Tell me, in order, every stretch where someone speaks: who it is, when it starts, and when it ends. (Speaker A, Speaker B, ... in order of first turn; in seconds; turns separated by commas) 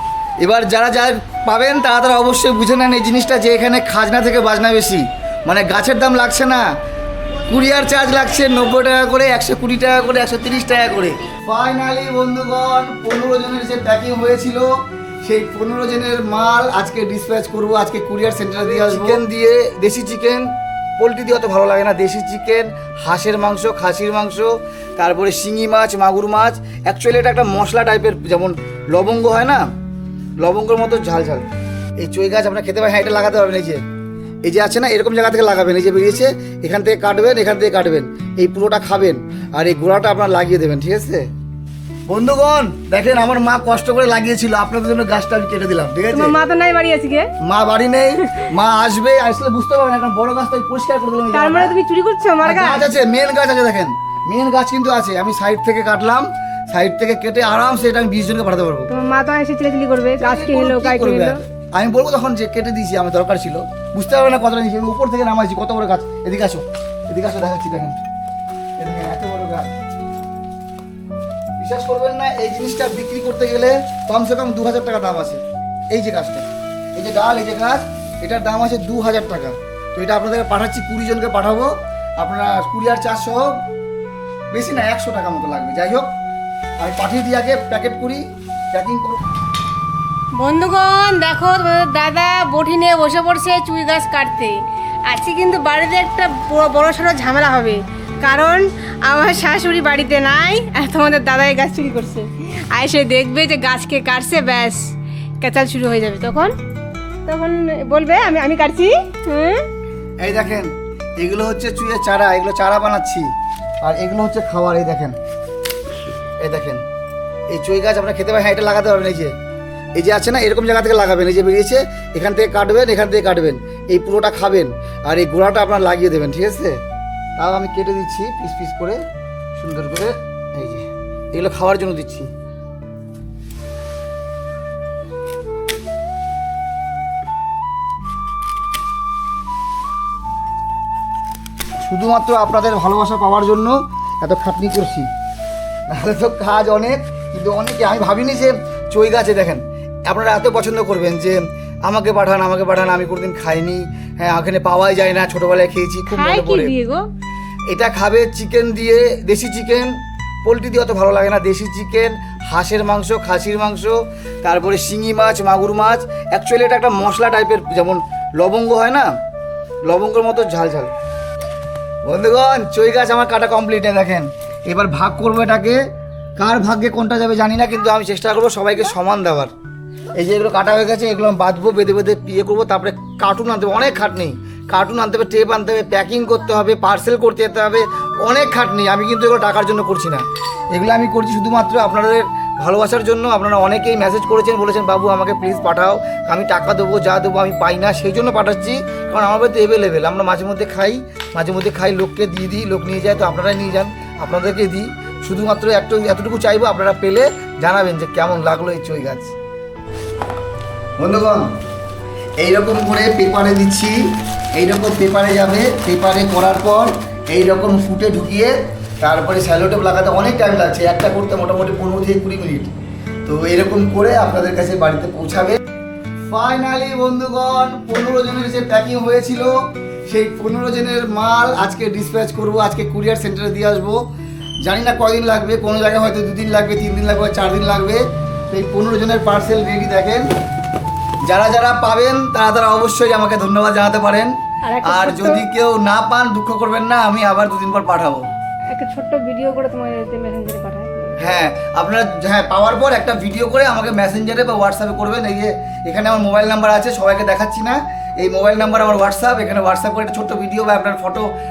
Speaker A: 0.4-6.7, Speaker A: 7.5-14.7, Speaker A: 15.2-20.5, Speaker A: 21.0-29.7, Speaker A: 30.4-31.5, Speaker A: 32.0-33.8, Speaker A: 34.4-41.3, Speaker A: 42.1-46.4, Speaker B: 46.1-47.3, Speaker A: 47.4-51.8, Speaker B: 51.3-52.9, Speaker A: 52.4-58.9, Speaker B: 58.9-61.4, Speaker A: 60.2-68.0, Speaker A: 68.8-69.7, Speaker A: 71.6-83.6, Speaker A: 84.5-86.1, Speaker A: 86.8-89.2, Speaker B: 90.3-106.5, Speaker B: 107.3-109.7, Speaker A: 110.2-113.3, Speaker A: 113.8-115.2, Speaker A: 116.4-116.8, Speaker A: 117.5-119.3, Speaker A: 120.0-126.8, Speaker A: 127.4-129.0, Speaker A: 129.6-132.3, Speaker A: 141.8-145.1, Speaker A: 145.9-156.7, Speaker B: 156.1-157.1, Speaker A: 157.7-169.1, Speaker A: 169.8-170.9, Speaker A: 172.1-175.8, Speaker A: 176.4-179.5, Speaker A: 180.2-209.3, Speaker A: 211.0-211.5, Speaker A: 212.4-222.7, Speaker A: 223.2-225.6, Speaker A: 226.3-229.6, Speaker A: 230.1-234.0, Speaker A: 234.6-240.3, Speaker A: 241.3-248.3, Speaker B: 244.7-245.5, Speaker B: 248.7-251.2, Speaker A: 251.2-261.3